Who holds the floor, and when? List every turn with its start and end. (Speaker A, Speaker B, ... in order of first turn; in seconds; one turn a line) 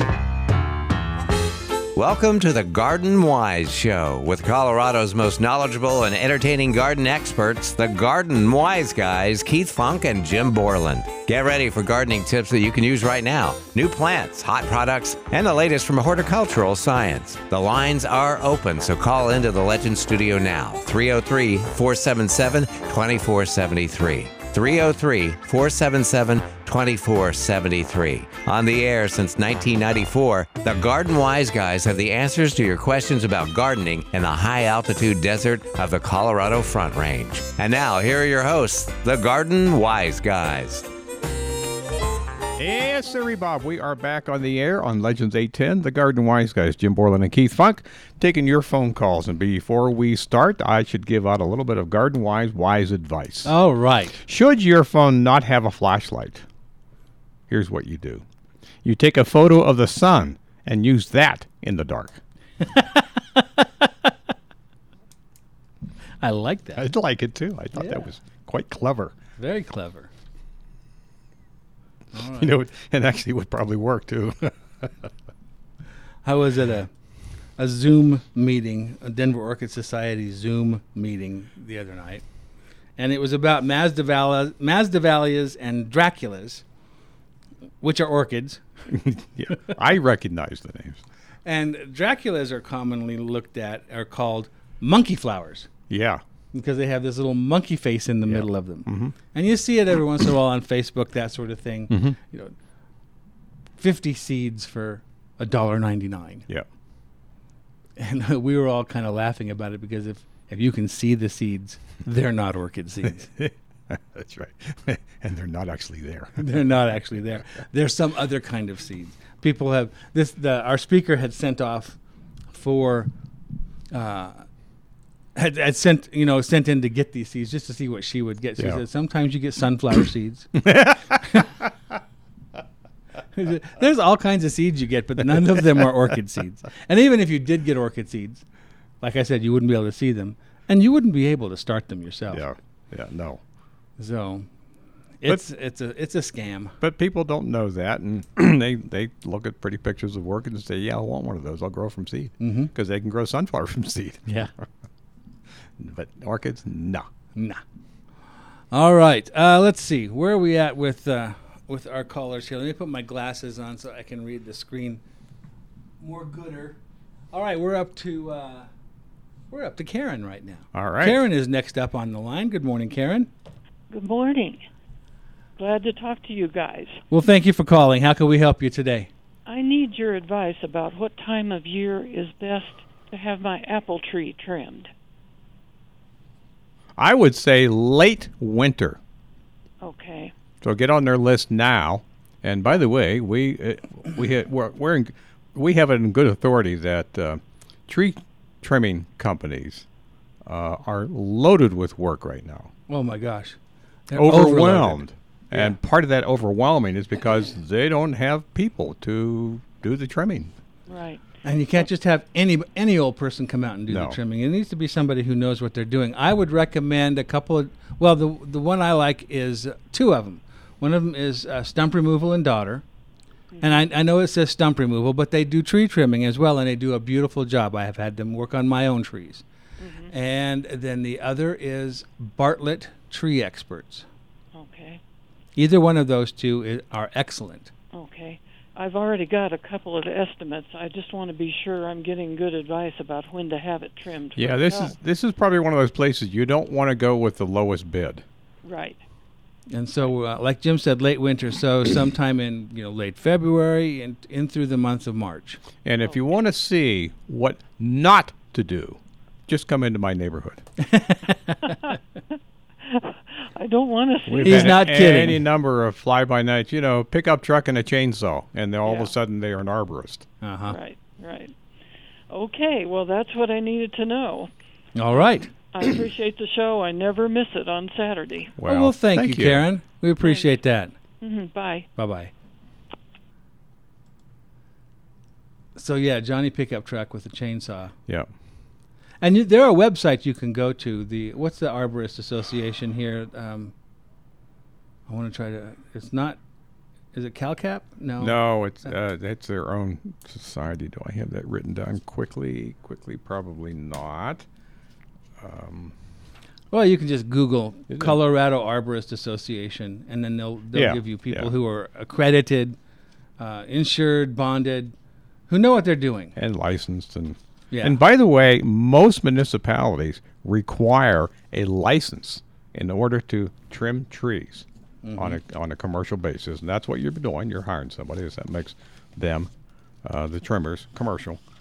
Speaker A: 1.9-40.9
Speaker B: 42.6-53.5
Speaker C: 53.5-54.2
Speaker B: 54.2-56.5
Speaker B: 57.5-58.2
Speaker B: 58.8-62.2
Speaker C: 62.6-64.1
Speaker C: 66.2-66.9
Speaker B: 66.8-69.2
Speaker C: 67.8-68.0
Speaker C: 69.4-70.1
Speaker C: 72.1-72.5
Speaker B: 72.4-75.1
Speaker C: 76.2-76.9
Speaker C: 77.6-82.2
Speaker C: 83.0-86.6
Speaker C: 87.8-88.6
Speaker B: 88.9-91.0
Speaker C: 91.5-95.7
Speaker B: 95.9-96.2
Speaker C: 96.5-102.5
Speaker B: 98.3-99.2
Speaker B: 101.9-102.2
Speaker C: 103.8-106.5
Speaker C: 108.0-113.3
Speaker B: 113.4-116.6
Speaker C: 116.4-122.0
Speaker C: 122.5-123.1
Speaker C: 123.9-124.5
Speaker C: 125.3-130.6
Speaker B: 128.6-128.8
Speaker B: 130.6-131.7
Speaker C: 133.3-138.4
Speaker C: 139.0-142.4
Speaker B: 142.3-143.4
Speaker C: 144.0-144.5
Speaker C: 145.2-146.8
Speaker B: 146.8-154.7
Speaker C: 152.4-152.7
Speaker B: 155.8-157.1
Speaker C: 157.4-157.6
Speaker C: 158.7-165.0
Speaker C: 166.0-166.8
Speaker C: 167.3-168.7
Speaker C: 169.5-173.3
Speaker B: 170.7-171.2
Speaker D: 173.9-174.6
Speaker D: 175.6-177.0
Speaker C: 177.1-179.1
Speaker D: 179.5-184.9
Speaker B: 187.0-189.0
Speaker D: 189.8-190.3
Speaker B: 190.6-199.9
Speaker B: 200.4-202.7
Speaker C: 202.9-203.6
Speaker C: 204.1-205.7
Speaker B: 204.2-210.5
Speaker D: 210.9-211.2
Speaker C: 211.4-222.8
Speaker B: 213.9-214.2
Speaker D: 223.5-223.8
Speaker C: 223.6-229.4
Speaker D: 229.8-230.1
Speaker C: 230.1-234.1
Speaker D: 234.6-235.0
Speaker C: 235.6-237.7
Speaker D: 237.9-244.9
Speaker B: 244.3-248.2
Speaker D: 248.7-249.0
Speaker C: 249.7-255.6
Speaker B: 255.8-260.6
Speaker C: 260.8-261.9
Speaker D: 261.6-262.0
Speaker D: 262.9-265.0
Speaker B: 264.3-270.3
Speaker C: 264.4-265.5
Speaker D: 268.9-269.1
Speaker C: 270.4-270.8
Speaker D: 270.7-271.6
Speaker D: 272.3-274.5
Speaker C: 275.0-275.5
Speaker D: 275.7-278.5
Speaker B: 278.6-279.7
Speaker C: 278.7-280.9
Speaker D: 280.2-280.5
Speaker D: 281.2-281.9
Speaker C: 282.0-282.3
Speaker C: 285.8-287.9
Speaker C: 289.2-293.7
Speaker C: 295.1-296.4
Speaker C: 297.1-298.4
Speaker B: 298.2-304.5
Speaker B: 305.4-306.0
Speaker C: 306.7-312.8
Speaker B: 307.9-308.2
Speaker B: 310.7-311.5
Speaker C: 313.4-314.9
Speaker C: 315.5-316.4
Speaker B: 316.4-329.5
Speaker C: 317.7-318.0
Speaker C: 325.0-325.4
Speaker B: 330.0-331.4